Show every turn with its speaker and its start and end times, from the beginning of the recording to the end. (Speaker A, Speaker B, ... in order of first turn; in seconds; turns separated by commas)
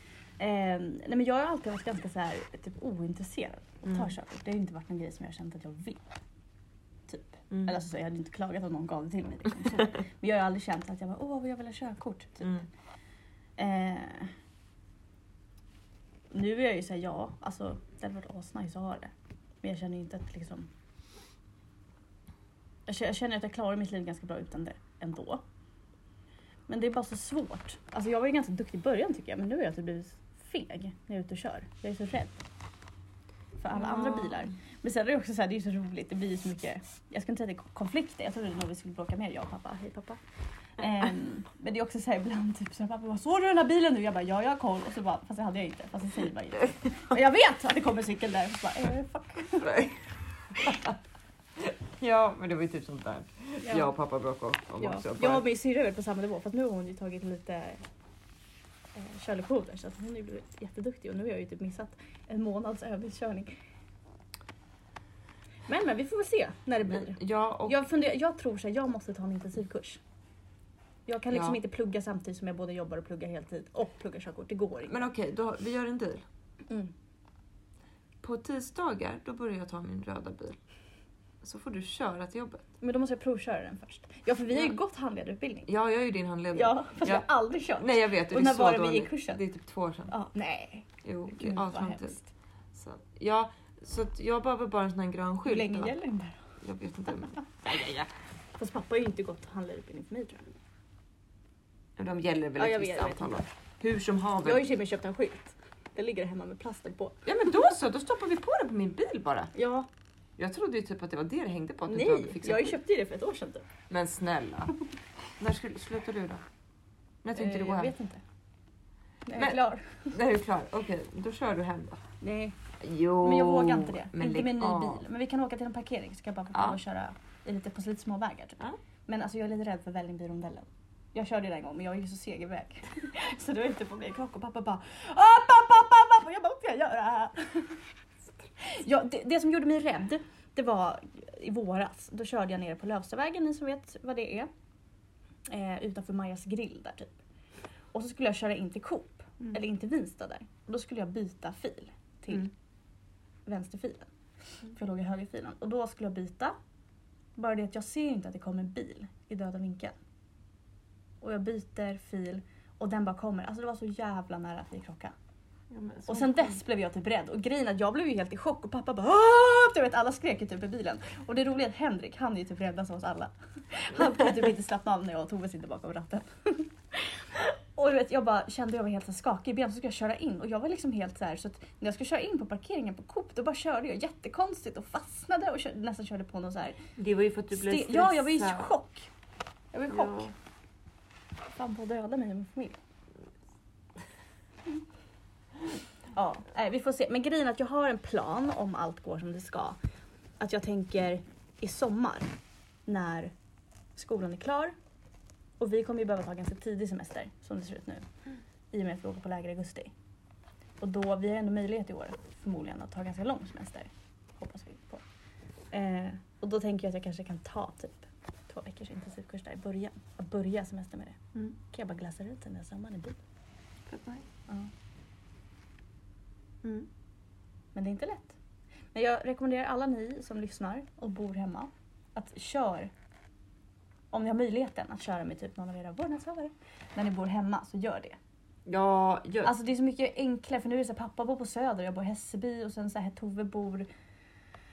Speaker A: 0.4-6.0, Speaker B: 3.9-4.1, Speaker A: 7.1-12.7, Speaker A: 13.6-14.3, Speaker A: 16.3-20.7, Speaker A: 22.9-25.4, Speaker A: 26.7-32.4, Speaker A: 33.6-40.2, Speaker B: 33.7-34.5, Speaker A: 40.8-49.8, Speaker B: 49.6-51.0, Speaker B: 51.6-55.5, Speaker A: 53.6-53.9, Speaker A: 54.8-57.8, Speaker A: 59.0-63.6, Speaker A: 65.7-70.0, Speaker B: 66.8-67.8, Speaker A: 71.1-75.0, Speaker B: 71.3-71.6, Speaker B: 74.9-76.2, Speaker B: 78.2-80.6, Speaker B: 81.4-82.7, Speaker A: 82.8-85.7, Speaker B: 85.7-90.1, Speaker A: 86.5-89.4, Speaker A: 90.1-92.3, Speaker B: 91.0-92.2, Speaker B: 92.7-96.0, Speaker A: 95.5-96.4, Speaker B: 96.6-97.8, Speaker A: 97.4-100.5, Speaker B: 102.0-104.7, Speaker A: 102.6-103.4, Speaker A: 104.4-107.2, Speaker B: 107.2-109.5, Speaker A: 109.5-109.9, Speaker B: 110.4-112.8, Speaker A: 111.9-113.7, Speaker B: 113.9-114.7, Speaker B: 115.4-116.4, Speaker B: 117.2-117.9, Speaker A: 117.3-118.2, Speaker A: 119.3-120.2, Speaker B: 119.3-122.0, Speaker A: 122.2-122.6, Speaker B: 122.8-125.0, Speaker A: 123.2-137.8, Speaker B: 126.5-126.8, Speaker A: 138.6-144.5, Speaker A: 145.5-147.1, Speaker A: 147.9-152.5, Speaker A: 153.5-154.1, Speaker A: 154.7-156.6, Speaker A: 157.4-159.9, Speaker A: 161.2-165.1, Speaker B: 165.7-166.6, Speaker A: 166.1-186.8, Speaker B: 187.0-188.7, Speaker A: 187.5-189.1, Speaker A: 189.7-190.3, Speaker B: 189.9-190.3, Speaker A: 191.5-192.8, Speaker A: 196.1-199.8, Speaker A: 200.4-202.3, Speaker A: 202.9-203.3, Speaker A: 204.0-204.8, Speaker A: 205.6-208.1, Speaker A: 208.7-209.9, Speaker A: 210.8-215.0, Speaker A: 215.7-223.2, Speaker B: 223.9-224.3, Speaker A: 227.8-228.4, Speaker A: 228.9-232.9, Speaker A: 234.1-238.2, Speaker B: 238.7-239.6, Speaker A: 239.4-243.9